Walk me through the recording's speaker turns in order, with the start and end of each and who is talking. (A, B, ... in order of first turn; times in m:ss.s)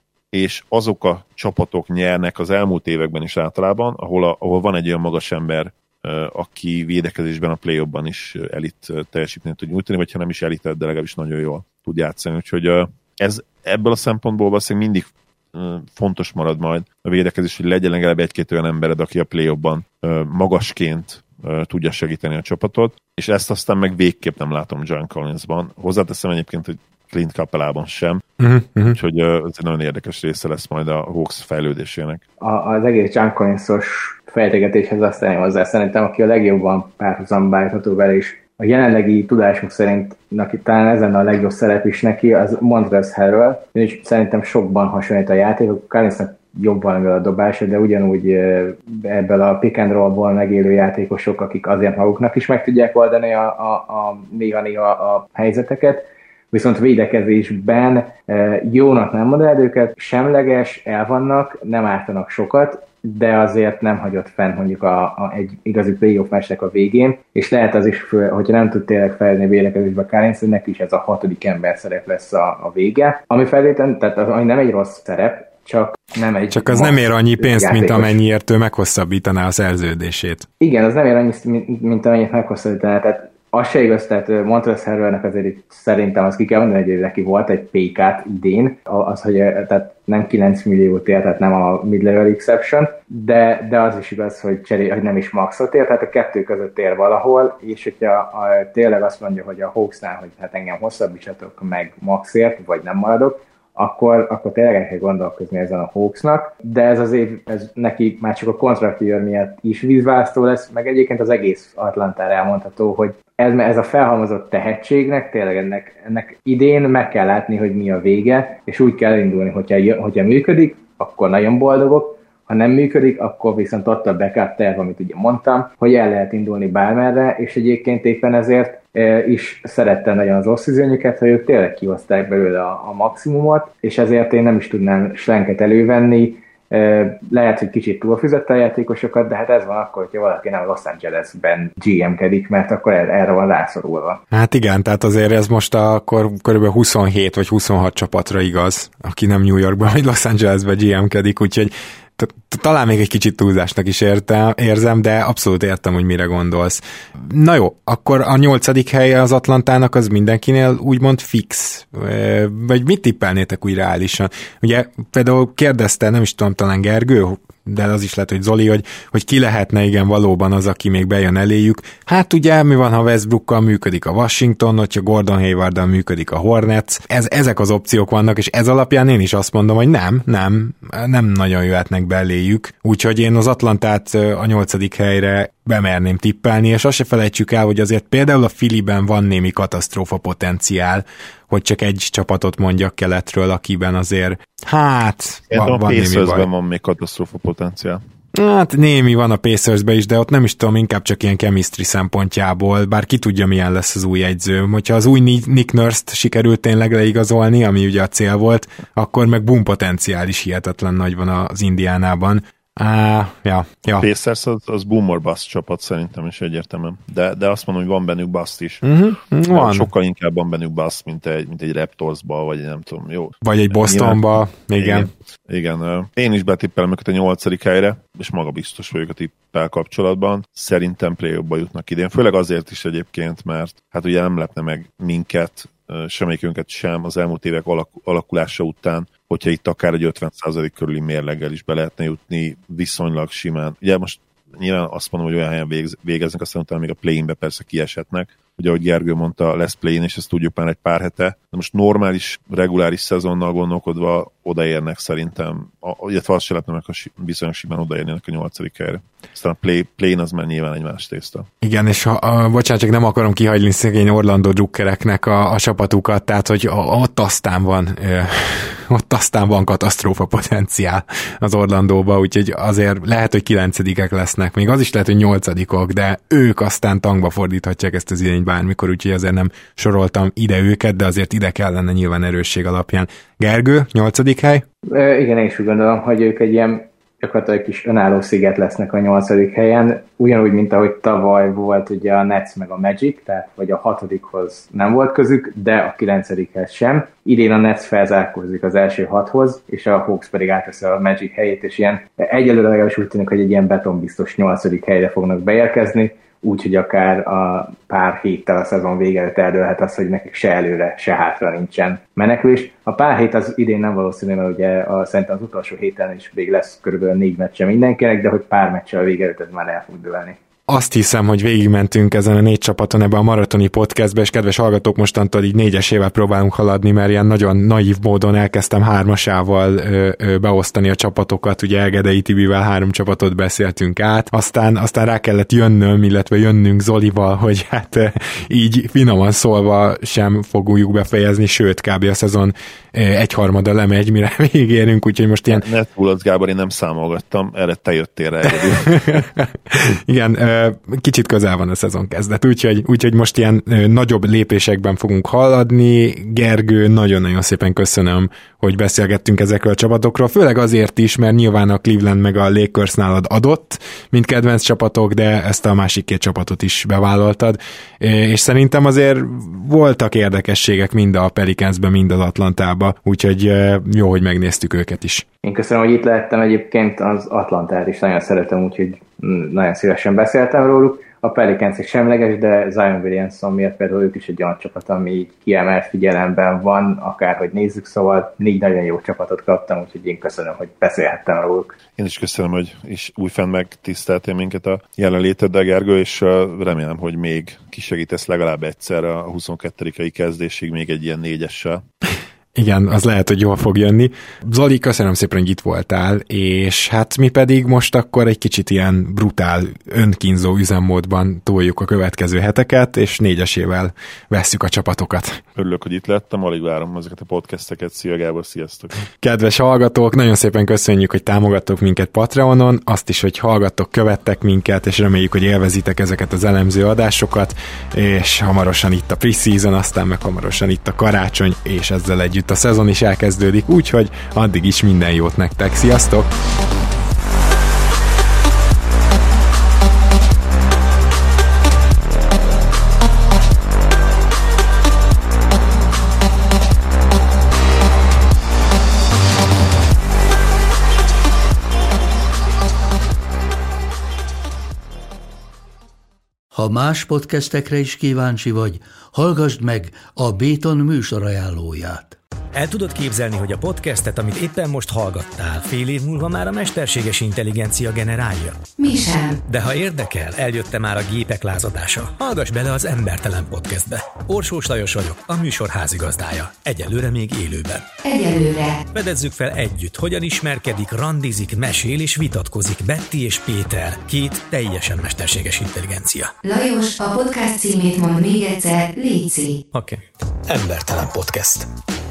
0:00.3-0:28.2 A
0:28.4-0:29.0 B
0:28.9-0:32.2 A
0:32.4-1:18.2 C
1:16.5-1:20.5 B
1:20.6-2:24.2 C
2:24.3-3:16.5 B
3:15.5-3:18.0 A
3:18.4-3:34.1 B
3:34.0-3:38.9 A
3:38.8-3:39.9 B
3:39.5-3:44.2 A
3:43.4-3:45.1 B
3:44.8-4:21.5 A
4:21.6-4:44.6 B
4:44.9-5:20.4 C
5:20.7-5:45.6 B
5:45.5-5:49.2 A
5:48.4-6:15.3 B
6:15.4-6:31.8 C
6:32.0-6:41.8 A
6:42.6-6:55.4 B
6:55.6-6:59.0 A
6:59.2-7:16.3 B
7:36.5-7:42.2 D
7:42.5-7:48.6 E
7:48.8-7:49.4 F
7:49.5-7:57.9 E
7:58.0-7:58.8 F
7:58.9-8:06.4 E
8:06.4-8:09.6 F
8:09.7-8:11.7 E